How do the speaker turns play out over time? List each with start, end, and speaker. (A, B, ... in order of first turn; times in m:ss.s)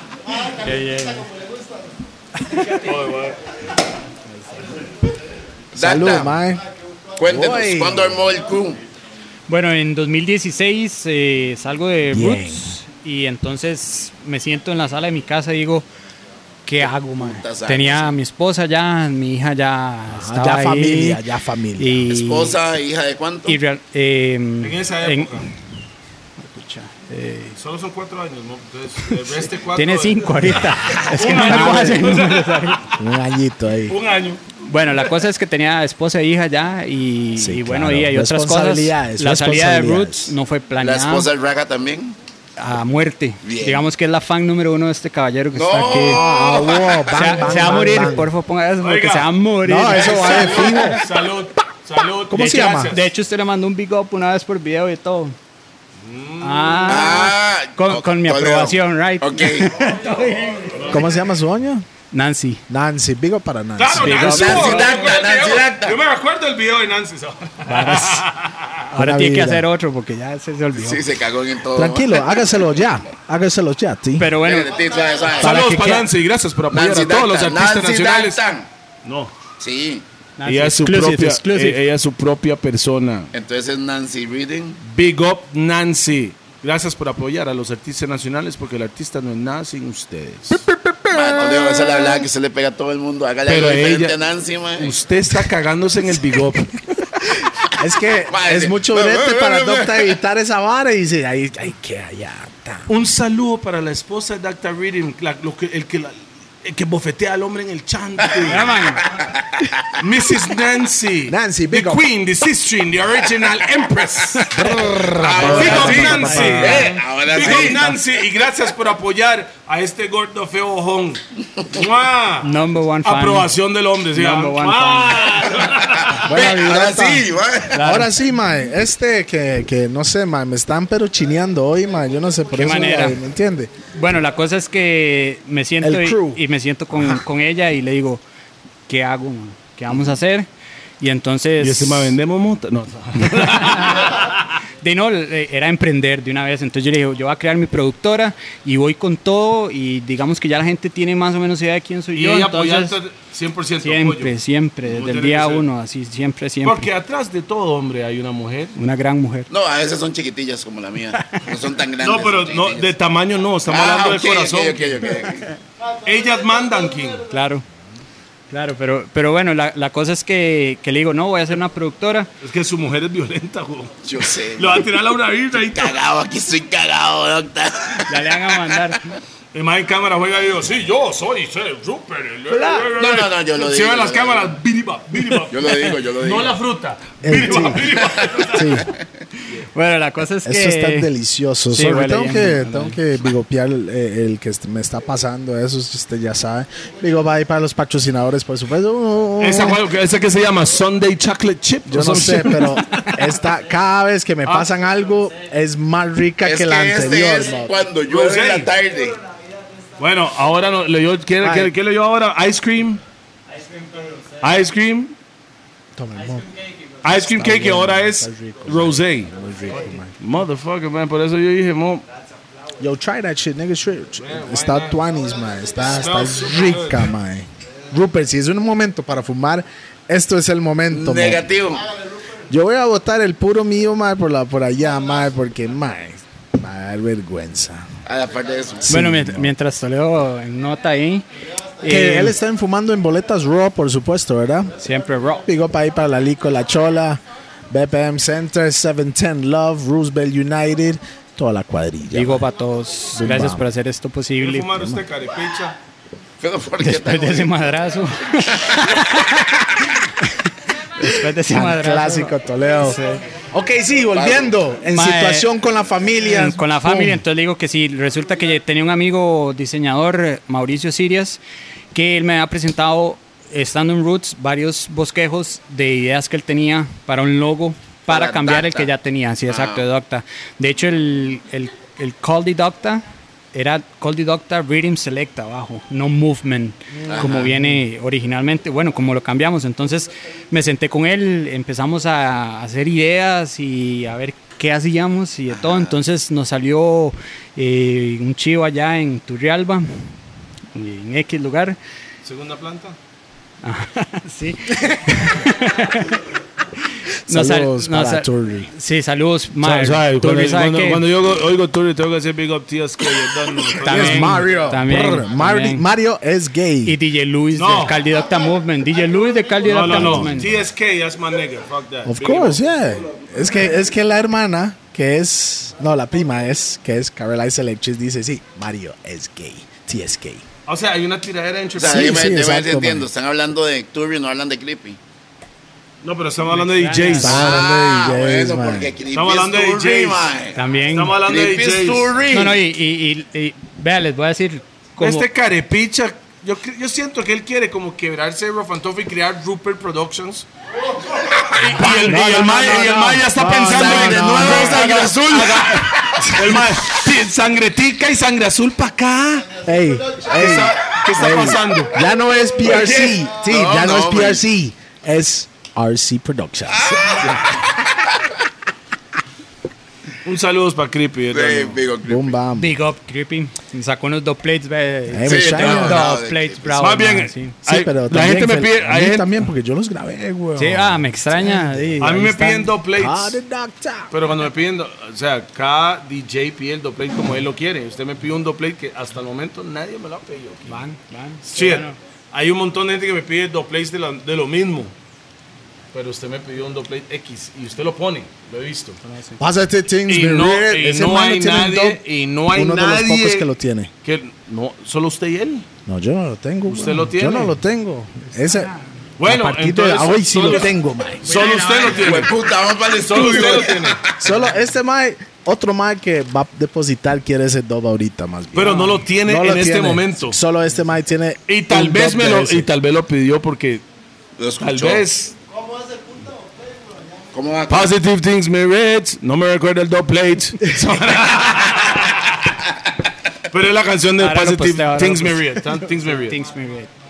0:00.4-0:01.3 A
0:02.6-0:03.4 B
0:05.7-0:06.4 C
0:05.8-0:06.6 D
0:07.2-0:08.8 C
0:07.2-0:08.2 D
0:09.5-0:15.8 A
0:12.1-0:12.8 D
0:16.6-0:21.2 A
0:16.8-0:18.1 C
0:20.1-0:22.0 D
0:21.8-0:22.6 A
0:22.1-0:23.6 C
0:23.4-0:25.5 A
0:24.6-0:25.5 B
0:26.4-0:27.6 A
0:27.6-0:33.0 B
0:29.7-0:32.9 A
0:31.3-0:32.0 D
0:33.0-0:34.0 D
0:33.9-0:34.4 B
0:34.6-0:41.3 A
0:37.4-0:40.3 D
0:40.8-0:42.2 C
0:42.6-0:46.2 A
0:43.4-0:43.8 C
0:45.5-0:47.6 C
0:45.9-0:48.3 D
0:47.1-0:51.0 A
0:48.8-0:49.3 B
0:49.6-0:51.1 D
0:49.9-0:53.1 B
0:52.3-0:52.9 D
0:52.4-0:55.4 A
0:56.0-0:57.2 B
0:56.4-1:01.0 A
0:56.9-0:59.7 C
1:00.7-1:01.0 B
1:00.9-1:01.8 D
1:02.1-1:02.6 A
1:02.7-1:04.7 D
1:03.8-1:08.7 B
1:04.0-1:04.9 A
1:04.2-1:06.0 C
1:07.7-1:08.2 A
1:08.9-1:11.0 A
1:08.9-1:09.7 D
1:10.7-1:12.6 C
1:11.7-1:14.3 D
1:14.2-1:14.7 A
1:14.4-1:15.5 C
1:15.4-1:18.4 B
1:15.4-1:16.1 D
1:16.7-1:18.7 C
1:19.0-1:19.3 B
1:19.6-1:20.0 C
1:20.4-1:21.8 A
1:20.4-1:23.3 B
1:23.3-1:24.8 C
1:24.8-1:30.7 B
1:30.7-1:32.2 D
1:31.1-1:34.9 C
1:33.4-1:34.2 B
1:34.8-1:36.8 B
1:37.8-1:42.9 D
1:38.3-1:40.1 C
1:42.9-1:48.7 B
1:48.4-1:49.8 C
1:48.4-1:49.0 A
1:50.0-1:54.5 B
1:51.3-1:52.0 D
1:54.3-1:54.8 A
1:54.5-1:56.8 D
1:55.2-1:57.9 C
1:55.4-2:02.5 B
1:55.4-1:57.9 A
2:02.4-2:03.5 A
2:03.0-2:06.3 B
2:04.1-2:05.4 A
2:06.0-2:07.8 C
2:06.2-2:13.7 D
2:07.7-2:08.1 A
2:12.6-2:13.2 A
2:13.9-2:18.2 A
2:15.8-2:17.2 D
2:18.9-2:20.5 A
2:21.0-2:22.2 A
2:21.6-2:24.3 B
2:23.4-2:24.2 A
2:24.8-2:33.0 A
2:32.1-2:34.3 B
2:33.8-2:36.9 A
2:34.8-2:35.6 B
2:36.6-2:38.8 B
2:38.8-2:39.5 A
2:39.5-2:42.9 C
2:41.2-2:41.4 A
2:42.0-2:45.2 B
2:43.6-2:45.4 C
2:46.0-2:47.2 B
2:47.3-2:47.6 A
2:48.5-2:52.3 A
2:52.4-2:56.0 B
2:54.0-2:54.9 C
2:55.5-2:58.6 C
2:58.1-2:59.2 A
2:59.5-3:08.8 B
3:02.5-3:02.9 A
3:02.9-3:04.6 C
3:05.5-3:06.6 C
3:07.2-3:07.8 D
3:07.8-3:09.0 C
3:08.5-3:08.9 D
3:09.6-3:11.1 A
3:10.4-3:19.8 D
3:11.7-3:13.0 A
3:19.4-3:22.7 B
3:21.9-3:27.8 D
3:22.8-3:23.3 A
3:26.4-3:29.2 C
3:28.1-3:28.7 B
3:30.0-3:33.0 B
3:31.4-3:31.7 D
3:34.4-3:35.1 B
3:36.0-3:36.5 D
3:37.0-3:39.3 B
3:37.1-3:40.1 D
3:40.2-3:42.0 B
3:42.8-3:51.4 D
3:44.2-3:45.0 B
3:45.8-3:47.1 B
3:50.9-3:51.9 C
3:52.5-3:57.8 D
3:58.0-3:58.9 C
3:58.8-3:59.5 D
3:58.9-4:01.2 A
4:01.8-4:02.4 A
4:01.8-4:04.7 D
4:04.8-4:05.4 A
4:05.4-4:12.4 D
4:12.1-4:15.0 A
4:13.1-4:13.6 D
4:14.4-4:15.8 B
4:16.4-4:17.6 C
4:16.8-4:23.2 A
4:18.4-4:19.1 C
4:21.4-4:23.0 D
4:23.5-4:27.2 D
4:24.1-4:24.5 C
4:24.9-4:25.5 A
4:26.2-4:31.4 A
4:31.9-5:00.1 A
4:38.1-4:38.9 C
4:39.5-4:39.8 C
4:46.9-4:47.8 D
4:47.1-4:47.4 C
4:55.5-4:55.9 C
5:00.7-5:01.8 A
5:02.2-5:03.0 B
5:03.6-5:06.2 A
5:06.8-5:11.0 A
5:07.3-5:08.7 D
5:09.6-5:14.5 B
5:13.8-5:15.8 A
5:13.8-5:17.0 D
5:16.8-5:20.6 A
5:17.5-5:18.0 B
5:19.6-5:22.6 B
5:19.7-5:20.5 D
5:22.0-5:30.4 D
5:30.6-5:32.3 B
5:31.8-5:35.0 C
5:31.8-5:33.1 D
5:36.0-5:37.5 B
5:36.5-5:37.5 A
5:37.2-5:38.9 D
5:37.2-5:40.6 C
5:39.1-5:40.3 B
5:40.5-5:41.2 A
5:40.9-5:42.1 B
5:41.2-5:42.6 C
5:42.3-5:45.2 A
5:45.0-5:50.4 B
5:51.2-5:59.6 B
5:51.6-5:52.1 A
5:51.8-5:55.1 D
5:53.7-5:56.4 C
5:59.6-6:07.4 D
6:00.3-6:02.0 B
6:02.6-6:03.2 B
6:02.8-6:04.4 C
6:06.7-6:08.2 C
6:10.2-6:11.8 B
6:11.3-6:12.4 C
6:12.0-6:12.8 D
6:12.6-6:17.6 A
6:15.1-6:16.1 D
6:15.2-6:16.8 C
6:16.8-6:19.3 B
6:17.6-6:22.2 D
6:20.6-6:22.7 A
6:22.0-6:23.4 B
6:22.9-6:24.1 D
6:24.1-6:30.8 B
6:30.6-6:32.0 A
6:31.4-6:34.9 B
6:35.9-6:39.0 B
6:39.0-6:39.4 A
6:39.4-6:43.9 D
6:40.1-6:43.5 B
6:44.0-6:45.6 B
6:45.8-6:51.3 D
6:46.7-6:47.6 B
6:48.3-6:48.9 A
6:49.2-6:52.4 B
6:51.2-6:52.3 A
6:51.9-6:54.3 C
6:52.9-6:54.0 B
6:54.2-7:02.7 D
6:58.5-7:00.4 B
6:58.6-6:59.0 A
7:01.5-7:03.8 B
7:04.4-7:05.0 C
7:04.6-7:05.3 B
7:07.3-7:07.9 C
7:07.7-7:12.4 B
7:13.5-7:16.4 B
7:14.2-7:16.9 A